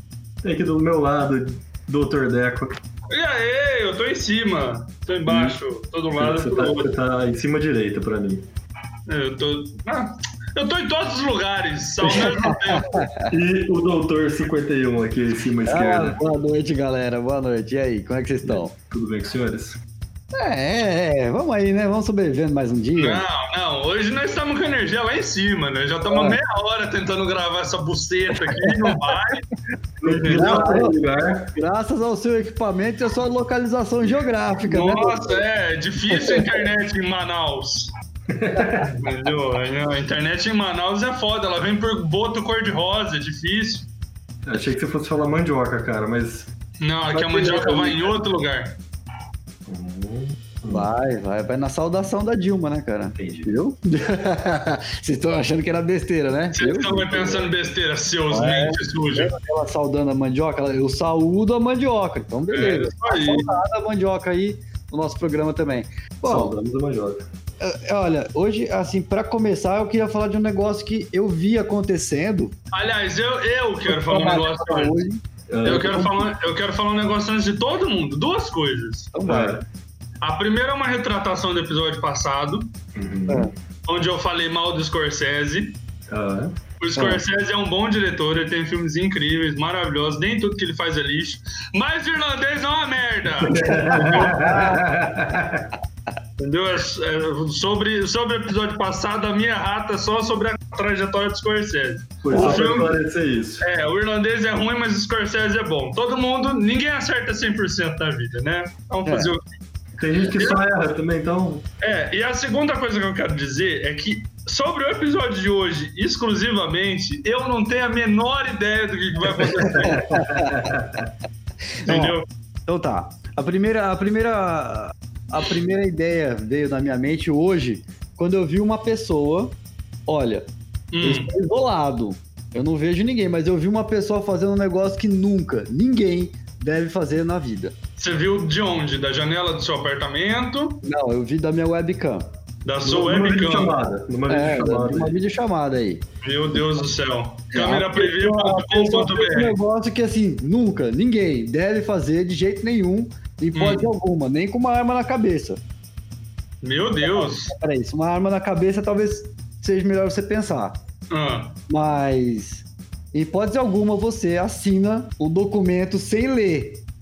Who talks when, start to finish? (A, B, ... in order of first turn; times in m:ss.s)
0:00.4-0:02.8 A
0:03.1-0:06.9 B
0:05.3-0:05.6 A
0:06.2-0:08.5 A
0:09.1-0:13.0 B
0:12.0-0:13.3 C
0:13.3-0:16.2 A
0:15.7-0:18.7 C
0:18.4-0:19.8 A
0:20.4-0:23.2 C
0:23.0-0:29.5 B
0:26.1-0:26.4 C
0:28.6-0:29.0 C
0:30.0-0:31.5 A
0:30.0-0:30.6 B
0:30.3-0:31.0 C
0:31.6-0:35.4 C
0:34.6-0:37.9 B
0:36.0-0:36.6 C
0:38.3-0:38.9 A
0:38.9-0:43.9 B
0:44.5-0:46.5 A
0:46.8-0:48.8 B
0:47.1-0:48.1 A
0:49.7-0:50.9 A
0:50.7-0:57.5 C
0:53.2-0:53.6 A
0:56.5-0:59.3 B
0:58.3-1:06.5 C
1:02.5-1:03.5 B
1:06.2-1:07.3 A
1:07.6-1:12.5 C
1:12.7-1:15.0 B
1:13.9-1:16.3 C
1:15.5-1:16.1 A
1:15.6-1:19.1 B
1:19.1-1:19.6 C
1:19.3-1:19.6 A
1:20.2-1:22.7 B
1:23.0-1:23.5 A
1:23.9-1:25.8 B
1:26.1-1:26.5 A
1:26.8-1:34.6 B
1:27.0-1:27.2 C
1:33.4-1:35.7 A
1:33.6-1:35.6 C
1:36.4-1:43.0 B
1:42.2-1:43.6 A
1:42.3-1:42.6 C
1:43.6-1:49.4 B
1:49.1-1:49.3 C
1:50.0-1:51.6 A
1:50.3-1:50.6 B
1:51.8-2:00.1 B
1:59.7-2:01.1 A
1:59.8-2:00.7 C
2:01.8-2:10.5 C
2:01.8-2:02.2 B
2:10.9-2:11.3 B
2:11.0-2:17.8 C
2:18.0-2:20.8 B
2:20.8-2:22.3 C
2:22.6-2:23.8 B
2:22.8-2:25.2 A
2:24.3-2:26.8 C
2:26.2-2:29.6 B
2:27.5-2:35.6 C
2:33.6-2:33.9 B
2:36.6-2:37.5 B
2:37.0-2:40.8 C
2:41.1-2:41.6 B
2:41.7-2:46.8 C